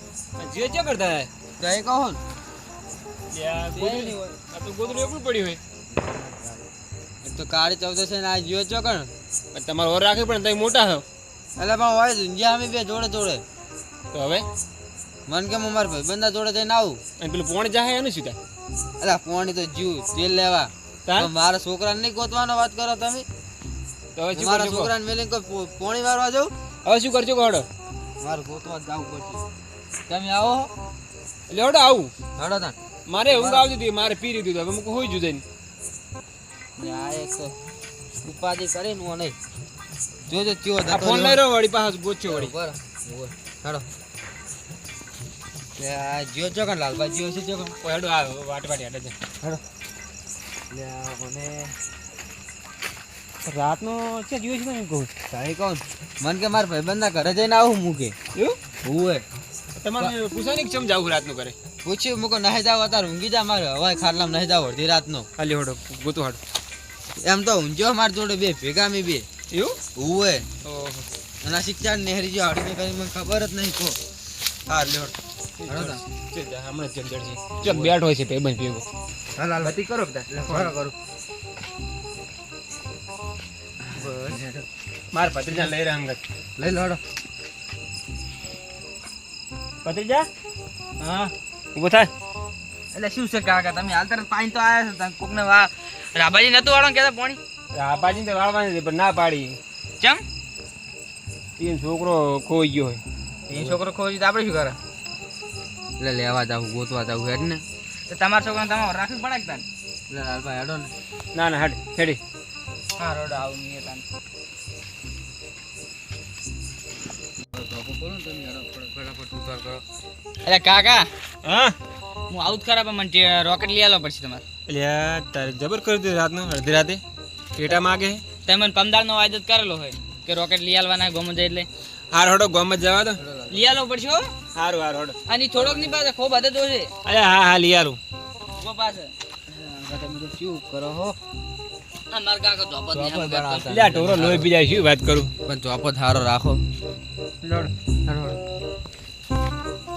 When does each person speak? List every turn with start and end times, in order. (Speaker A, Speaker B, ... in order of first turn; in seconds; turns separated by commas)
Speaker A: 0.4-1.3, Speaker B: 1.6-2.2, Speaker A: 3.3-5.6, Speaker B: 3.7-4.4, Speaker B: 5.9-6.7, Speaker B: 7.2-9.1, Speaker A: 9.5-11.1, Speaker B: 11.6-13.4, Speaker A: 14.1-14.5, Speaker B: 15.3-17.0, Speaker A: 17.2-18.4, Speaker B: 19.0-23.2, Speaker A: 21.1-21.3, Speaker A: 24.2-24.9, Speaker B: 24.3-26.5, Speaker A: 26.9-27.7, Speaker B: 28.2-29.4, Speaker B: 30.1-30.7, Speaker A: 31.5-32.1, Speaker B: 32.4-32.8, Speaker A: 33.1-35.4, Speaker B: 33.3-33.7, Speaker C: 36.8-37.5, Speaker B: 38.2-39.4, Speaker B: 40.3-41.4, Speaker A: 40.9-42.5, Speaker B: 42.3-43.9, Speaker B: 45.8-47.8, Speaker A: 47.8-49.2, Speaker B: 50.7-51.8, Speaker A: 53.4-55.1, Speaker B: 55.3-58.2, Speaker B: 58.8-59.2, Speaker A: 59.8-61.5, Speaker B: 61.8-65.3, Speaker A: 65.4-66.4, Speaker B: 67.2-69.2, Speaker A: 69.5-69.8, Speaker B: 69.9-70.5, Speaker A: 70.6-71.1, Speaker B: 71.4-74.0, Speaker B: 74.7-75.1, Speaker A: 74.8-75.1, Speaker A: 75.6-78.9, Speaker B: 75.7-76.0, Speaker B: 77.6-78.0, Speaker B: 79.4-79.8, Speaker A: 79.6-80.8, Speaker B: 80.3-80.9, Speaker B: 83.9-84.7, Speaker A: 85.1-86.2, Speaker B: 86.6-87.0, Speaker A: 89.8-90.3, Speaker C: 91.0-91.3, Speaker A: 91.8-92.1, Speaker B: 93.0-93.9, Speaker C: 93.5-97.4, Speaker A: 97.7-99.6, Speaker A: 101.6-103.0, Speaker B: 103.5-103.8, Speaker C: 103.5-104.8, Speaker B: 106.0-107.6, Speaker C: 108.1-109.6, Speaker B: 110.1-110.9, Speaker A: 111.3-112.2, Speaker B: 117.5-119.8, Speaker C: 120.4-121.1, Speaker A: 121.4-121.8, Speaker C: 122.3-124.4, Speaker A: 124.7-127.0, Speaker A: 127.6-128.2, Speaker C: 128.4-131.7, Speaker A: 132.1-133.2, Speaker B: 133.2-133.7, Speaker C: 133.5-134.3, Speaker A: 134.5-135.2, Speaker C: 135.3-136.9, Speaker A: 137.1-138.0, Speaker C: 138.6-139.1, Speaker B: 139.5-141.1, Speaker C: 142.1-143.7, Speaker B: 142.9-144.5, Speaker A: 143.7-145.3, Speaker B: 145.5-146.6, Speaker A: 147.4-147.7, Speaker B: 148.1-148.4